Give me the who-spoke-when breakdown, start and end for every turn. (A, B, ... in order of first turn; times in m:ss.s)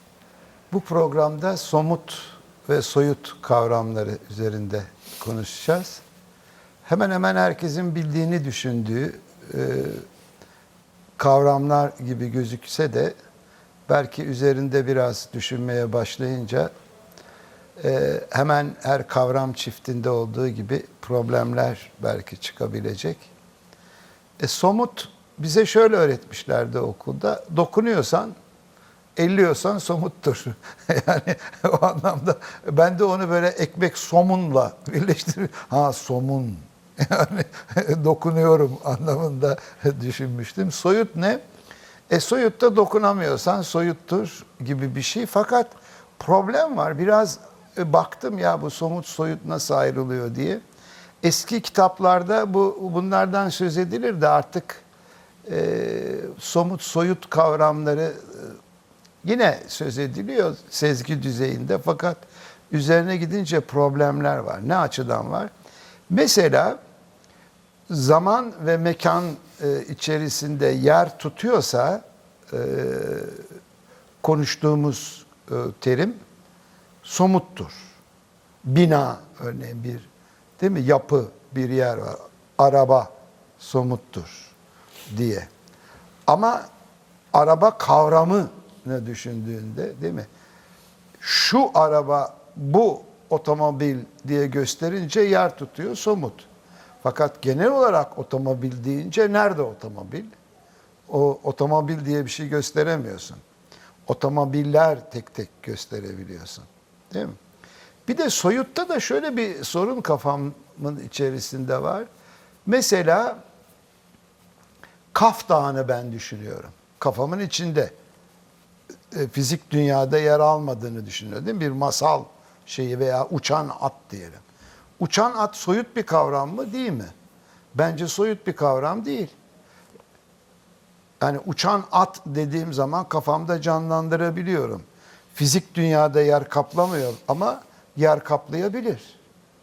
0:00.7-0:06.0 A
0:06.8-0:10.0 A
0:11.2-0:13.1 A
0:13.9-0:16.7 A
0:17.8-0:23.3 A
0:24.4-0:28.4 A
0:29.2-0:41.4 A
0:42.1-0:50.6 A
0:51.2-0:54.8 A
0:55.4-0:58.6 A
0:59.2-1:05.5 A
1:06.1-1:06.8 A
1:07.9-1:13.4 A
1:14.2-1:16.2 A
1:17.0-1:17.9 A
1:18.6-1:20.1 A
1:20.6-1:24.5 A
1:25.1-1:25.5 A
1:26.3-1:26.7 A
1:27.3-1:30.3 A
1:31.2-1:36.5 A
1:37.0-1:40.3 A
1:41.1-1:43.4 A
1:44.1-1:47.4 A
1:48.0-1:52.1 A
1:52.6-1:53.4 A
1:55.1-1:57.9 A
1:59.1-2:04.4 A
2:05.0-2:07.1 A
2:07.7-2:09.3 A
2:11.2-2:19.2 A